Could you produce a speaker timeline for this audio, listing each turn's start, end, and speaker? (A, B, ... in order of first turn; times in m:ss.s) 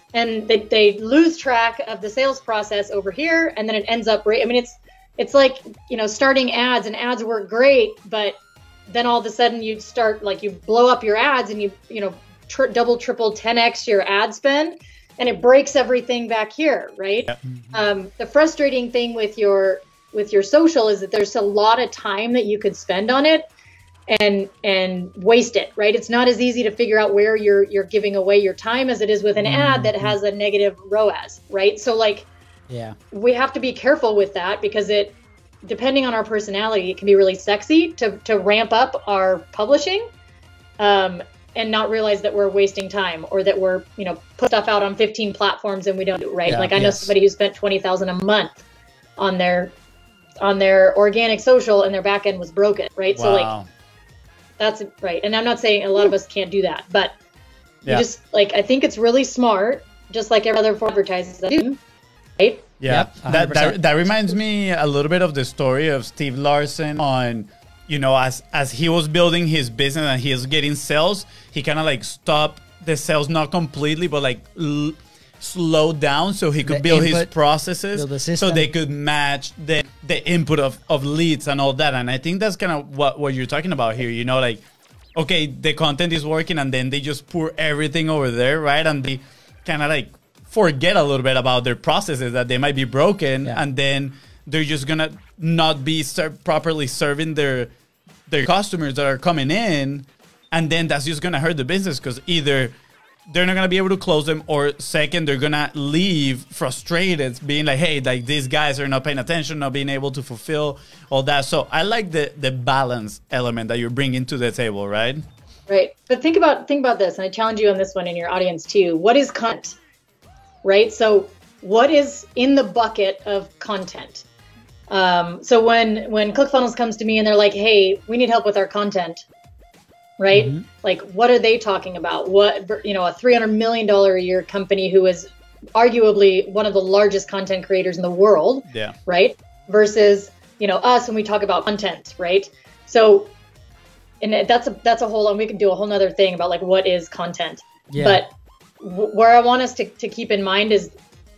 0:00.1-0:08.4 A
0:08.9-0:23.5 A
0:24.1-0:32.3 A
0:29.4-0:30.1 B
0:32.7-0:33.0 B
0:33.1-0:40.1 A
0:40.8-0:48.6 A
0:46.4-0:47.1 C
0:49.2-0:49.7 A
0:50.4-0:53.5 A
0:53.1-0:53.7 C
0:54.6-0:57.1 A
0:57.9-1:01.8 A
1:02.4-1:02.7 A
1:02.8-1:24.6 C
1:02.9-1:03.8 B
1:16.6-1:17.3 B
1:17.9-1:18.7 B
1:25.2-1:37.7 C
1:38.3-1:42.7 C
1:43.3-1:55.2 C
1:55.7-1:59.8 A
2:00.6-2:04.2 A
2:04.9-2:09.2 A
2:10.2-2:23.3 A
2:10.3-2:10.6 B
2:24.2-2:30.9 A
2:27.9-2:28.2 B